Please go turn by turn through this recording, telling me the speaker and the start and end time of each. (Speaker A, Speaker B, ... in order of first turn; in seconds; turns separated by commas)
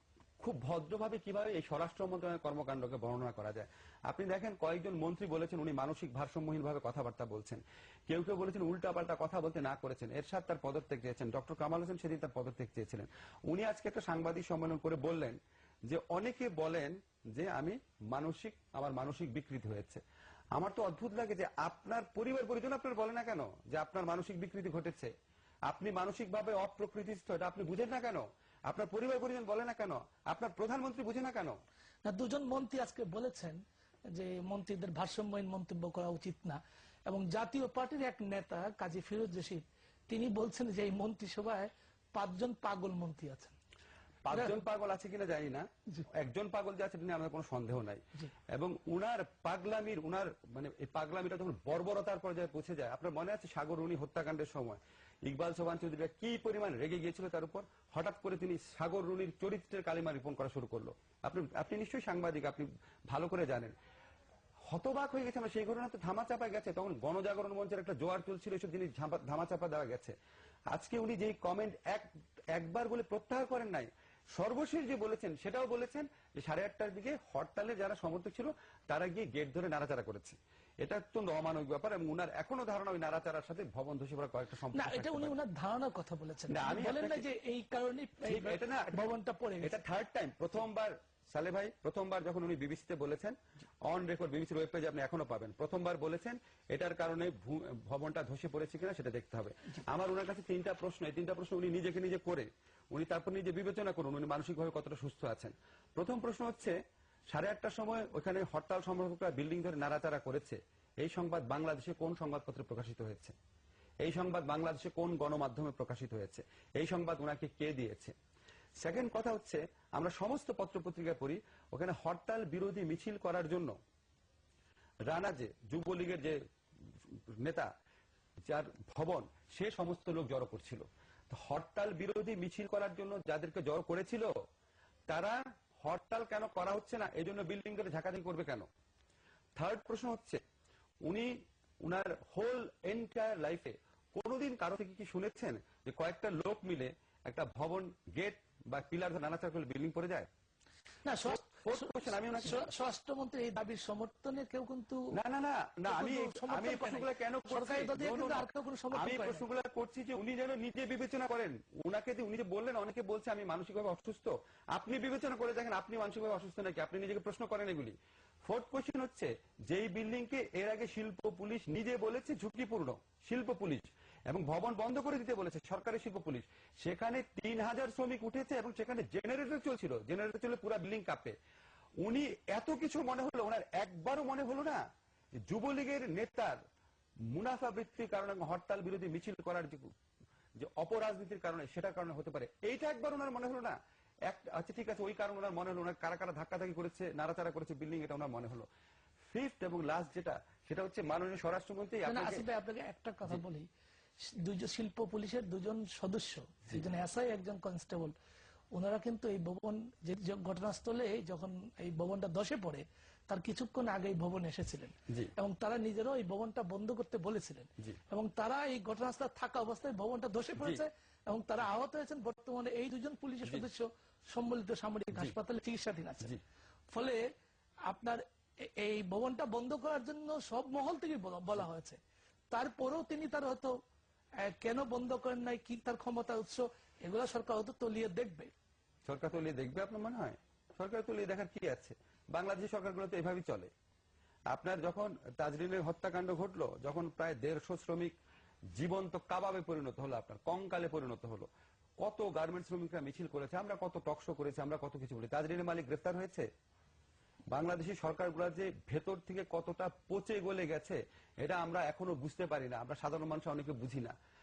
Speaker A: 0.4-20.0, Speaker A: 20.5-25.1, Speaker A: 25.7-31.6, Speaker B: 32.0-33.6, Speaker B: 34.1-43.5, Speaker A: 44.2-63.7, Speaker A: 64.7-70.1, Speaker A: 70.7-85.3, Speaker B: 84.7-89.8, Speaker A: 86.5-87.2, Speaker A: 88.2-89.0, Speaker A: 89.6-106.8, Speaker A: 107.3-113.3, Speaker A: 114.0-118.1, Speaker A: 118.8-123.7, Speaker A: 125.1-126.4, Speaker A: 127.4-127.7, Speaker A: 128.5-134.3, Speaker A: 135.1-138.7, Speaker A: 139.6-140.4, Speaker A: 141.1-150.3, Speaker B: 151.0-155.1, Speaker A: 151.2-152.7, Speaker A: 155.1-181.3, Speaker B: 155.9-159.4, Speaker A: 182.0-184.8, Speaker A: 185.5-186.6, Speaker A: 187.3-189.9, Speaker A: 190.6-193.8, Speaker A: 194.3-198.7, Speaker A: 199.3-202.4, Speaker B: 202.0-203.7, Speaker B: 204.2-208.1, Speaker B: 208.7-226.3, Speaker A: 220.6-220.8, Speaker B: 226.9-227.3, Speaker B: 227.9-232.0, Speaker B: 232.5-233.7, Speaker B: 234.4-238.5, Speaker A: 239.1-243.7, Speaker A: 244.5-248.1, Speaker A: 248.7-251.5, Speaker A: 252.0-256.5, Speaker A: 257.5-264.1